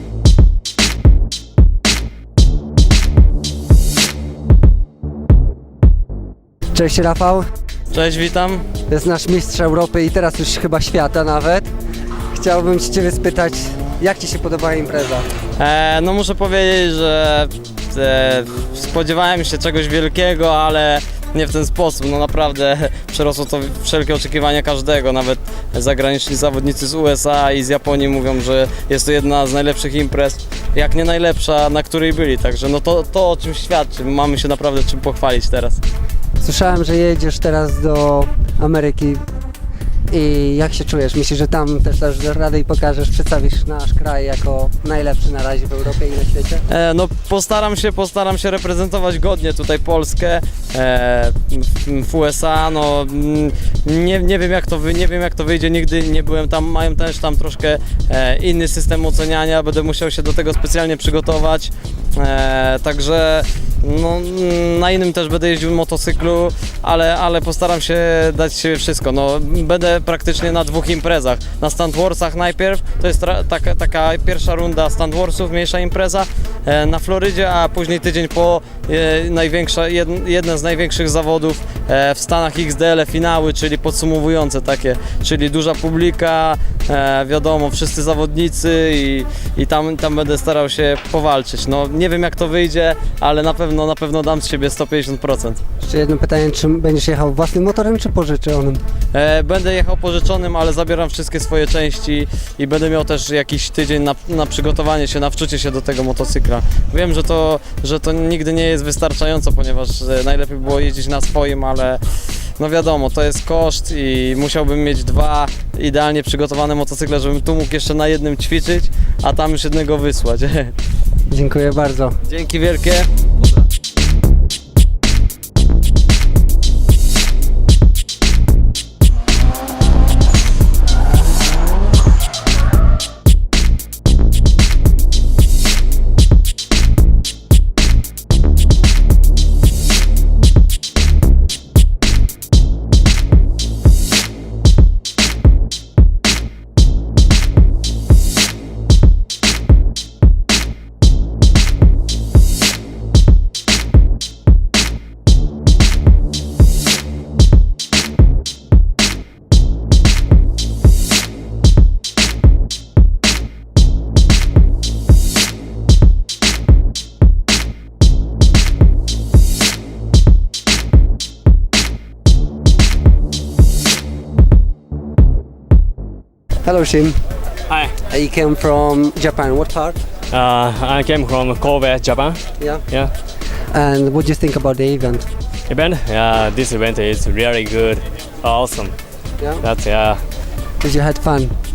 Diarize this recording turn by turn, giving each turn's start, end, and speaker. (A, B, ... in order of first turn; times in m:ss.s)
0:06.7-0:07.5 A
0:07.9-0:08.7 B
0:08.9-0:11.7 A
0:12.3-0:15.3 A
0:15.6-0:35.8 B
0:36.4-0:39.2 A
0:40.1-0:46.6 A
0:46.7-1:35.6 B
1:35.8-1:38.8 A
1:39.1-1:52.0 B
1:52.6-2:00.7 B
2:01.3-2:02.2 A
2:02.3-2:03.6 B
2:56.6-2:57.2 A
2:58.1-3:00.0 A
3:00.3-3:03.1 C
3:03.7-3:05.2 A
3:05.7-3:09.0 C
3:09.4-3:09.6 A
3:09.6-3:10.2 C
3:10.8-3:11.5 A